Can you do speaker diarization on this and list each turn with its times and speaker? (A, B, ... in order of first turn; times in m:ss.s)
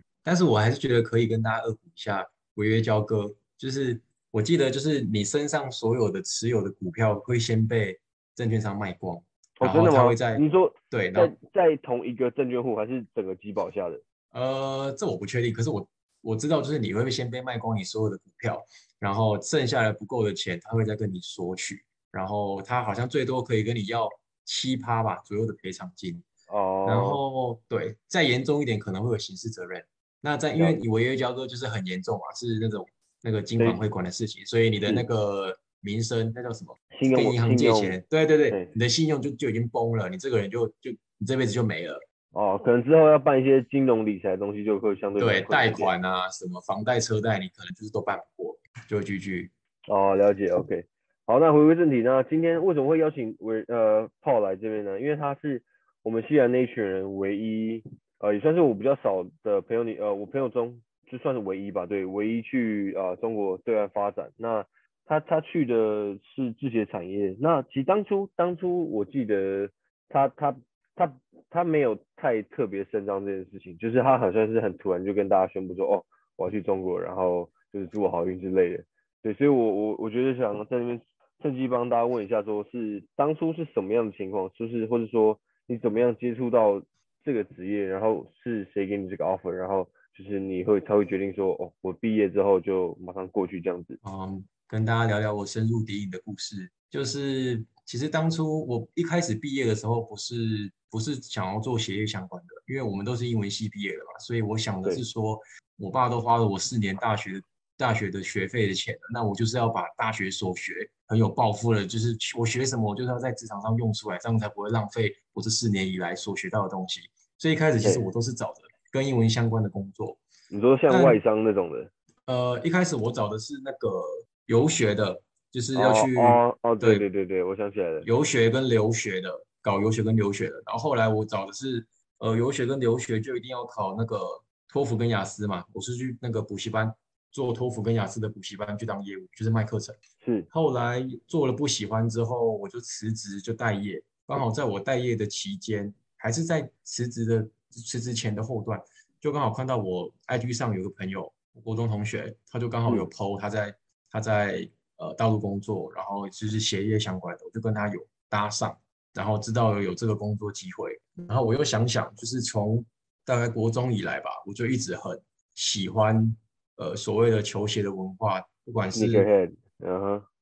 0:00.2-0:11.3 A
0:09.6-0:14.0 B
0:14.3-0:26.3 A
0:26.5-0:27.2 B
0:26.9-0:42.0 A
0:36.9-0:38.0 B
0:42.3-0:45.9 B
0:45.2-0:49.5 A
0:49.9-1:34.0 B
1:34.0-2:00.2 A
1:57.8-1:58.1 B
2:00.5-2:01.9 B
2:00.9-2:01.2 A
2:02.3-2:07.0 A
2:05.8-2:08.1 B
2:08.0-2:20.0 A
2:20.2-2:20.5 B
2:20.5-2:49.3 A
2:48.9-2:50.2 B